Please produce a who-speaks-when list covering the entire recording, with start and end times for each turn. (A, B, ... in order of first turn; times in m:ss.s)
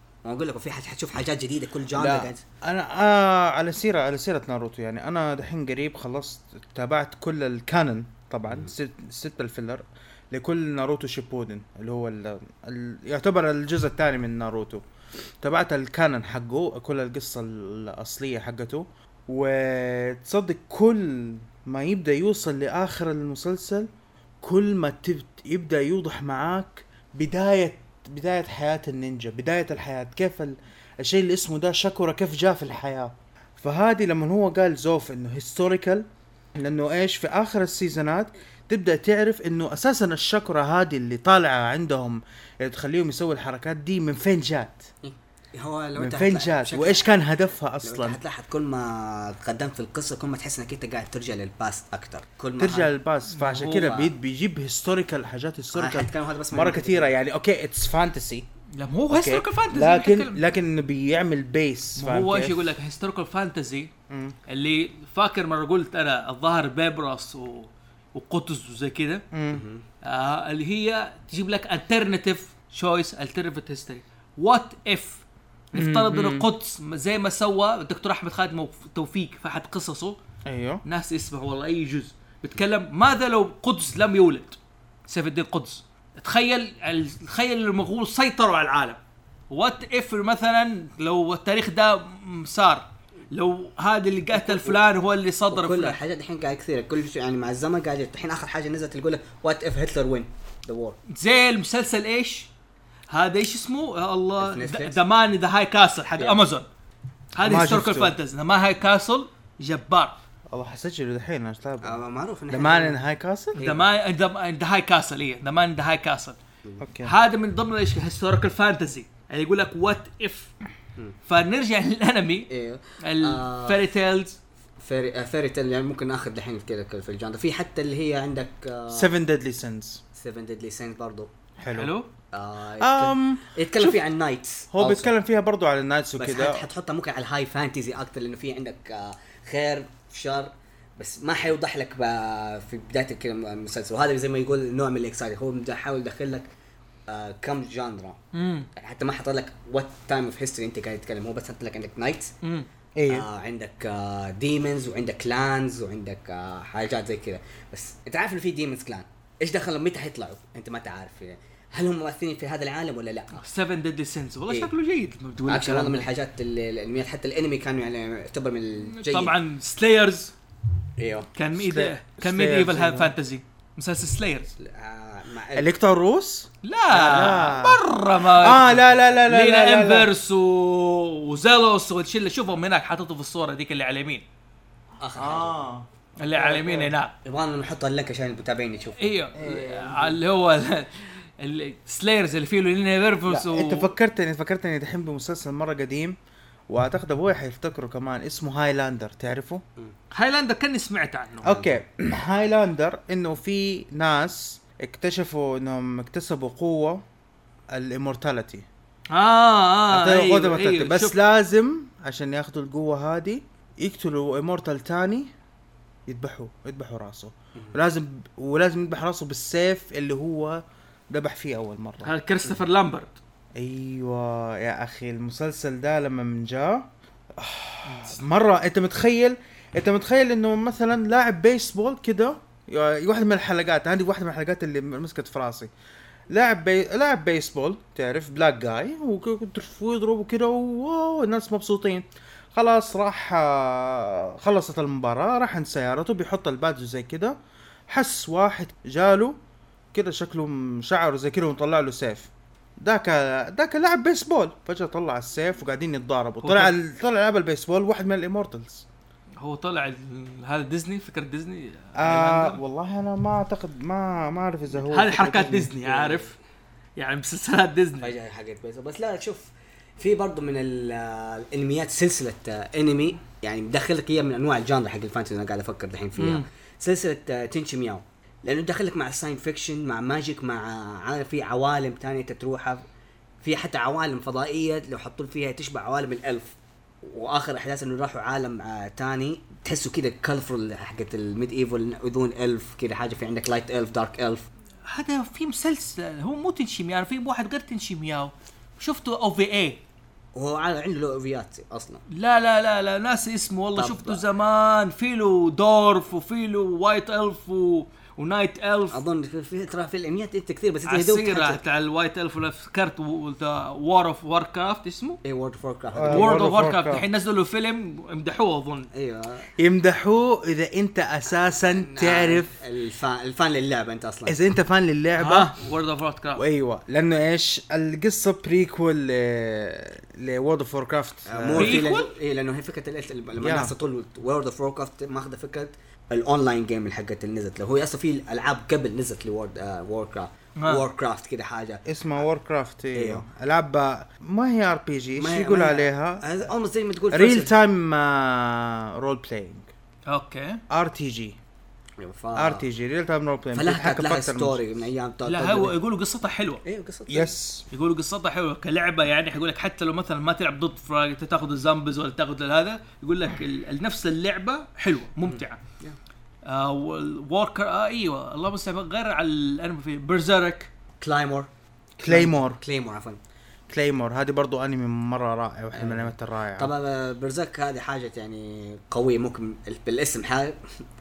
0:00.2-0:02.4 A
0:01.9-0:14.8 B
0:15.4-0:23.9 B
0:24.4-0:44.9 B
0:45.0-0:47.1 A
0:46.0-0:48.2 B
0:47.8-0:52.9 A
0:52.6-0:58.4 B
0:53.3-0:53.9 C
0:53.6-0:54.1 A
0:55.7-0:57.1 A
0:58.8-1:00.4 C
0:59.1-1:02.6 B
1:02.0-1:03.9 C
1:04.1-1:04.4 B
1:04.5-1:09.2 C
1:09.3-1:09.6 B
1:09.5-1:09.8 A
1:10.0-1:20.2 C
1:15.7-1:16.5 B
1:20.4-1:20.8 B
1:20.8-1:29.0 C
1:29.5-1:36.0 C
1:34.3-1:34.8 A
1:35.5-1:41.0 A
1:41.1-1:42.5 C
1:43.1-1:46.7 C
1:44.4-1:45.0 A
1:47.3-1:50.2 C
1:47.4-1:48.1 B
1:50.5-1:53.6 B
1:51.8-1:53.0 A
1:53.5-1:53.8 A
1:53.6-1:56.4 C
1:56.8-1:57.1 B
1:57.0-2:00.5 C
2:01.3-2:02.5 C
2:02.5-2:03.8 A
2:03.0-2:04.4 C
2:04.8-2:09.1 A
2:08.9-2:10.0 B
2:10.2-2:11.3 A
2:11.6-2:11.9 B
2:11.7-2:12.1 C
2:12.3-2:15.1 A
2:12.8-2:14.0 B
2:14.7-2:16.6 B
2:16.2-2:26.5 A
2:27.1-2:28.2 A
2:28.3-2:28.7 C
2:28.8-2:32.3 A
2:32.4-2:32.7 C
2:33.0-2:33.3 B
2:33.1-2:43.4 A
2:43.4-2:46.1 C
2:45.5-2:49.3 A
2:48.9-2:50.3 C
2:51.0-2:51.3 A
2:51.3-2:54.5 C
2:51.5-2:53.1 B
2:54.5-2:55.7 A
2:55.5-3:00.1 B
2:56.6-3:04.2 C
3:05.0-3:05.6 A
3:05.2-3:05.9 B
3:06.2-3:07.1 C
3:06.4-3:10.0 A
3:09.0-3:13.9 C
3:09.4-3:10.0 B
3:13.3-3:16.2 B
3:16.7-3:19.6 B
3:20.1-3:21.6 C
3:21.4-3:21.8 A
3:21.4-3:27.0 B
3:27.7-3:28.6 B
3:29.1-3:31.2 C
3:29.9-3:35.3 B
3:36.1-3:42.1 B
3:42.0-3:43.2 C
3:43.6-3:55.7 B
3:47.8-3:48.2 C
3:56.3-4:07.4 B
4:07.9-4:09.4 B
4:09.9-4:18.8 B
4:16.4-4:16.7 C
4:19.4-4:22.6 C
4:22.0-4:25.7 B
4:24.8-4:26.4 C
4:25.8-4:26.3 A
4:27.0-4:28.1 C
4:28.0-4:42.8 A
4:36.2-4:36.4 C
4:43.4-4:54.4 A
4:54.9-4:59.8 C
5:00.3-5:02.0 A
5:02.1-5:09.0 C
5:03.8-5:04.2 A
5:08.9-5:11.6 A
5:10.8-5:15.2 C
5:15.2-5:16.4 A
5:15.9-5:17.0 B
5:16.1-5:18.9 C
5:18.9-5:19.5 A
5:19.6-5:22.6 B
5:21.7-5:24.4 A
5:24.3-5:25.5 B
5:25.2-5:26.4 C
5:26.4-5:31.8 B
5:31.3-5:41.8 A
5:31.6-5:32.1 C
5:33.4-5:33.7 B
5:40.6-5:40.8 C
5:41.8-5:46.2 B
5:42.9-5:43.2 A
5:45.2-5:47.5 A
5:47.1-5:49.7 B
5:50.1-5:50.6 C
5:50.7-5:51.4 B
5:52.0-5:52.7 A
5:52.3-5:54.6 B
5:53.5-5:55.8 A
5:55.2-5:56.6 C
5:56.6-5:57.3 A
5:57.1-5:57.6 B
5:57.7-6:05.6 C
6:05.3-6:06.0 A
6:06.4-6:10.7 C
6:11.0-6:11.5 A
6:12.0-6:12.6 B
6:12.0-6:13.2 A
6:13.7-6:16.7 B
6:15.7-6:20.8 A